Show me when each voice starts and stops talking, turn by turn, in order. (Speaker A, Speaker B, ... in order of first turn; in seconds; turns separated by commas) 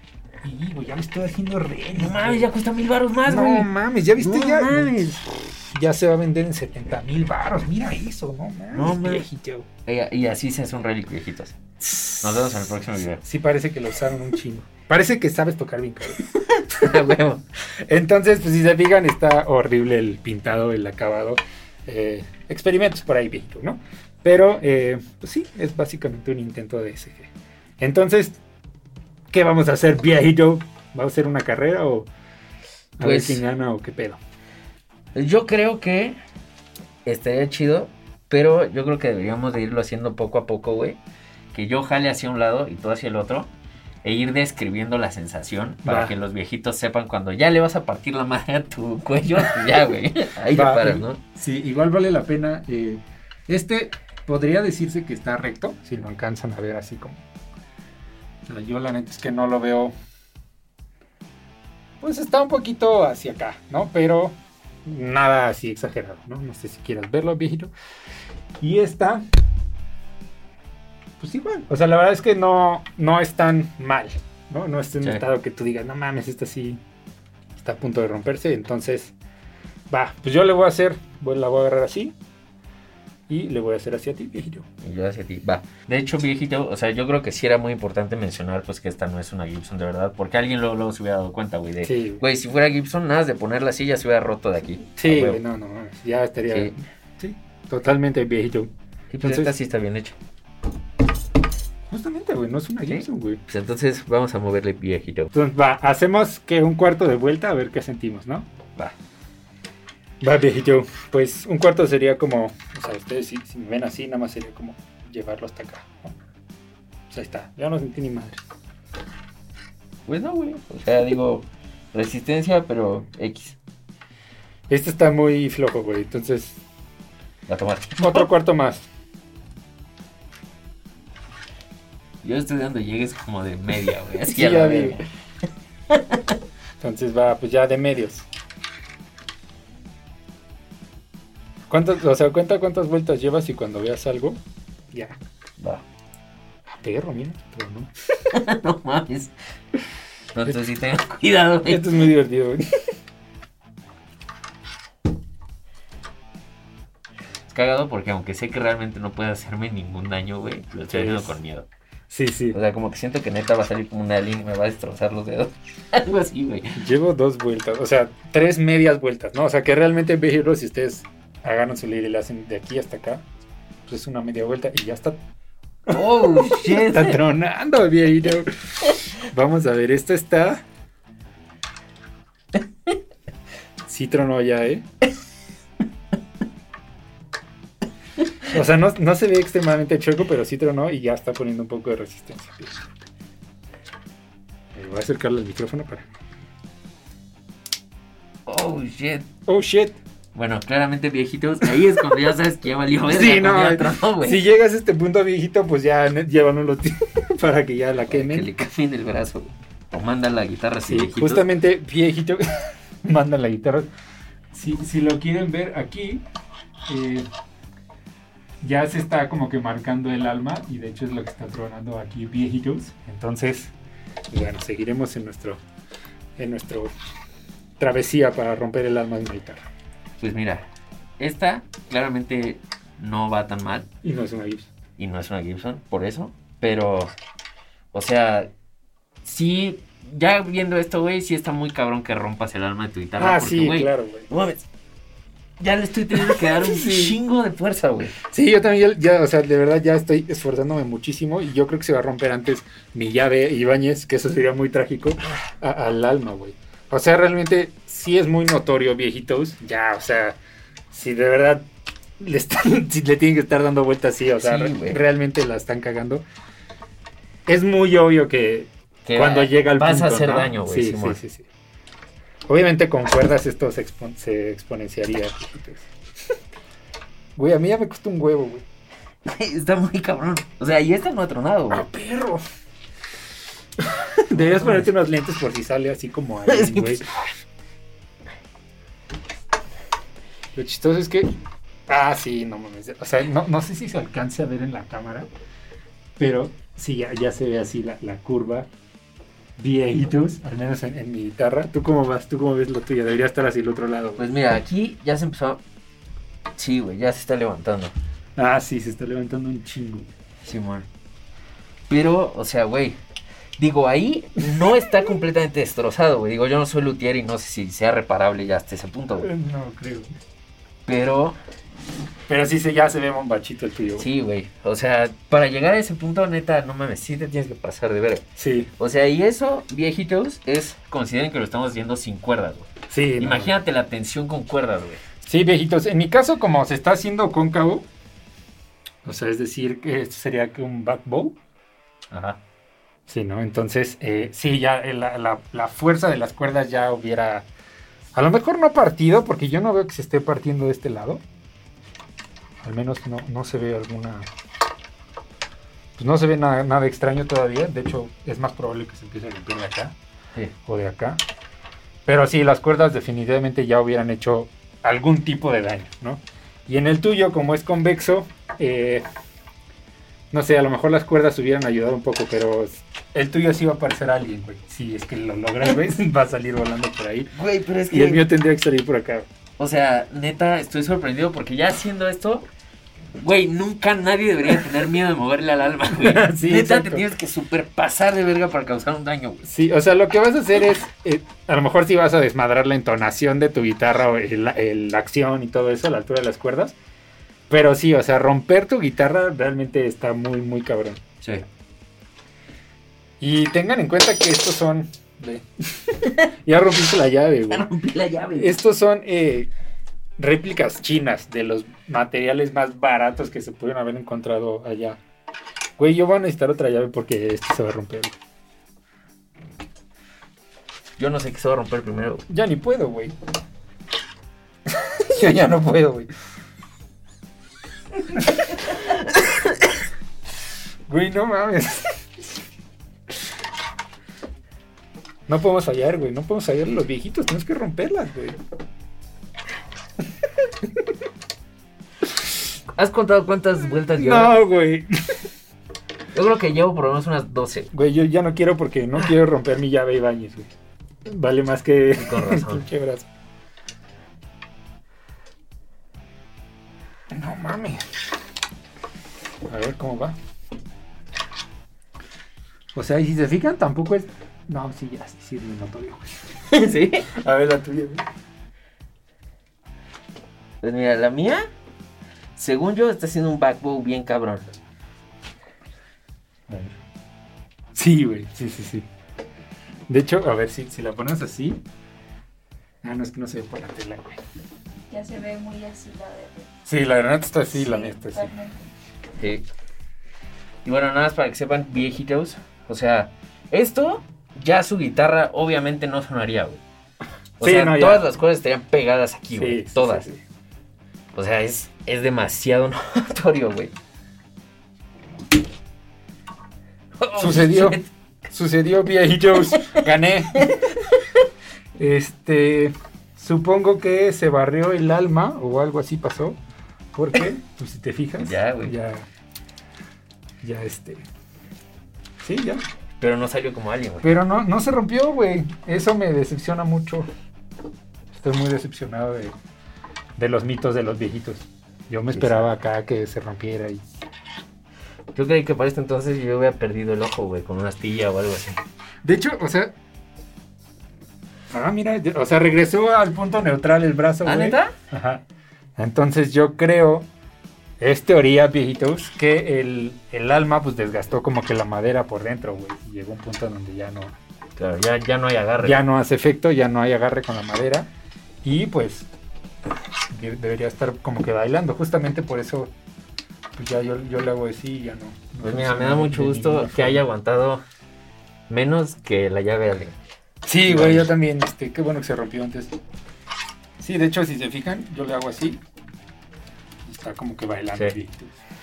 Speaker A: 0.4-2.5, Speaker B: 1.9-5.2, Speaker A: 3.3-5.1, Speaker A: 5.7-9.7, Speaker B: 8.7-9.3, Speaker B: 9.8-11.6, Speaker A: 11.8-12.7, Speaker B: 12.2-13.2, Speaker A: 13.2-16.3, Speaker B: 16.5-17.4, Speaker A: 17.7-28.4, Speaker A: 29.3-32.1, Speaker A: 33.0-34.2, Speaker B: 33.0-33.4, Speaker B: 35.1-36.2, Speaker B: 37.0-41.0, Speaker B: 41.5-43.5, Speaker B: 44.0-51.2, Speaker A: 45.9-46.2, Speaker A: 50.5-57.2, Speaker A: 58.5-59.9, Speaker A: 62.0-67.7, Speaker A: 68.6-69.2, Speaker A: 71.2-76.8, Speaker A: 77.6-79.1, Speaker A: 79.9-82.2, Speaker A: 83.3-84.7, Speaker B: 84.8-95.4, Speaker A: 91.8-92.2, Speaker A: 95.0-98.7, Speaker B: 99.1-100.2, Speaker A: 99.2-99.5, Speaker A: 101.9-103.4, Speaker B: 102.9-105.3, Speaker A: 105.3-108.5, Speaker A: 110.2-116.2, Speaker A: 117.1-118.4, Speaker B: 120.1-123.6, Speaker A: 124.7-126.6, Speaker B: 127.5-128.3, Speaker A: 128.0-128.9, Speaker B: 132.2-135.1, Speaker A: 134.3-135.0, Speaker B: 135.9-136.4, Speaker A: 136.8-138.3, Speaker A: 141.7-144.4, Speaker A: 144.9-145.2, Speaker B: 145.6-145.8, Speaker A: 146.7-147.9, Speaker B: 148.3-149.8, Speaker B: 150.3-151.8, Speaker A: 151.7-152.6, Speaker B: 157.5-161.7, Speaker A: 160.9-161.4, Speaker A: 162.1-162.6, Speaker B: 162.5-166.8, Speaker A: 166.8-173.2, Speaker A: 173.9-175.2, Speaker A: 175.9-180.6, Speaker B: 175.9-177.2, Speaker A: 183.9-184.9, Speaker A: 188.5-193.1, Speaker A: 194.8-196.1, Speaker B: 198.5-199.3, Speaker A: 199.5-200.0, Speaker B: 200.3-204.4, Speaker A: 203.1-208.5, Speaker B: 208.1-211.5, Speaker A: 210.9-213.9, Speaker A: 214.5-216.2, Speaker A: 216.9-217.3, Speaker A: 218.6-223.7, Speaker A: 224.3-225.6, Speaker A: 226.4-226.9, Speaker A: 227.8-229.7, Speaker B: 230.2-230.7, Speaker B: 231.2-233.9, Speaker A: 234.0-234.7, Speaker B: 235.0-237.1, Speaker B: 237.9-238.5, Speaker B: 239.2-244.7, Speaker A: 243.2-244.3, Speaker B: 245.6-248.2, Speaker A: 246.1-247.2, Speaker A: 248.3-260.4, Speaker A: 260.9-261.7, Speaker A: 262.2-266.2, Speaker B: 264.4-265.0, Speaker A: 267.5-271.5, Speaker B: 269.1-271.2, Speaker A: 272.5-275.9, Speaker A: 277.4-278.7, Speaker B: 279.3-281.9, Speaker A: 281.7-282.4, Speaker A: 283.8-287.3, Speaker B: 284.3-284.9, Speaker B: 286.5-287.3, Speaker A: 290.6-291.3, Speaker A: 291.9-295.3, Speaker A: 296.2-298.7, Speaker A: 299.6-304.3, Speaker B: 304.2-305.6, Speaker B: 306.6-307.9, Speaker A: 308.4-310.1, Speaker B: 310.4-310.9, Speaker B: 311.9-313.0, Speaker B: 313.6-319.3, Speaker A: 319.2-320.1, Speaker B: 320.9-321.4, Speaker A: 322.3-324.1, Speaker B: 324.0-328.3, Speaker A: 328.4-328.7, Speaker B: 328.8-335.0, Speaker A: 332.9-333.6, Speaker A: 335.2-337.9, Speaker A: 339.1-341.4, Speaker B: 342.1-342.4, Speaker A: 343.1-347.5, Speaker A: 348.1-351.2, Speaker A: 352.6-354.3, Speaker A: 356.0-359.9, Speaker A: 360.6-361.2, Speaker A: 362.1-369.1, Speaker A: 370.3-377.3, Speaker B: 377.3-378.2, Speaker A: 377.9-379.3, Speaker B: 379.6-382.5, Speaker B: 383.2-389.4, Speaker A: 386.0-387.1, Speaker A: 389.4-396.8, Speaker A: 397.5-401.0, Speaker A: 403.2-407.7, Speaker B: 407.5-408.6, Speaker A: 408.4-409.5, Speaker A: 410.2-415.0, Speaker A: 415.8-418.2, Speaker B: 421.0-422.2, Speaker A: 422.3-423.2, Speaker A: 424.7-426.1, Speaker A: 428.1-428.5, Speaker B: 428.7-429.2, Speaker A: 430.9-432.1, Speaker A: 435.3-438.4, Speaker B: 442.7-444.3, Speaker A: 444.0-445.3, Speaker B: 446.1-447.7, Speaker A: 447.7-450.5, Speaker A: 451.1-453.1, Speaker B: 452.0-452.7, Speaker A: 457.1-457.8, Speaker A: 459.5-460.2, Speaker A: 462.8-466.3, Speaker B: 466.5-467.1, Speaker A: 467.1-468.1, Speaker B: 470.6-471.5, Speaker B: 472.4-474.5, Speaker A: 476.5-476.8, Speaker A: 477.8-478.9, Speaker A: 479.9-481.6, Speaker A: 482.8-484.2, Speaker C: 484.9-486.5, Speaker A: 486.7-488.3, Speaker C: 487.6-488.7, Speaker B: 489.2-489.5, Speaker B: 490.6-496.6, Speaker B: 497.4-500.1, Speaker A: 497.4-498.1, Speaker A: 499.3-500.2, Speaker B: 501.1-503.8, Speaker B: 507.0-507.9, Speaker A: 507.2-510.6, Speaker B: 509.6-510.7, Speaker A: 511.8-516.4, Speaker A: 516.9-519.1, Speaker B: 518.2-518.7, Speaker A: 520.4-521.0, Speaker A: 522.2-522.6, Speaker B: 523.0-524.1, Speaker A: 524.0-527.1, Speaker A: 528.1-529.4, Speaker A: 530.2-533.8, Speaker B: 532.1-532.5, Speaker B: 535.1-538.6, Speaker A: 539.0-539.8, Speaker A: 541.5-545.2, Speaker B: 544.2-544.7, Speaker A: 545.8-547.1, Speaker A: 547.8-554.1, Speaker B: 554.6-555.8, Speaker A: 555.6-557.9, Speaker A: 558.4-559.1, Speaker A: 560.1-562.7, Speaker A: 563.6-567.1, Speaker B: 565.4-567.6, Speaker B: 568.5-570.0, Speaker A: 570.5-572.7, Speaker B: 570.7-571.1, Speaker A: 573.8-575.6, Speaker A: 576.9-578.4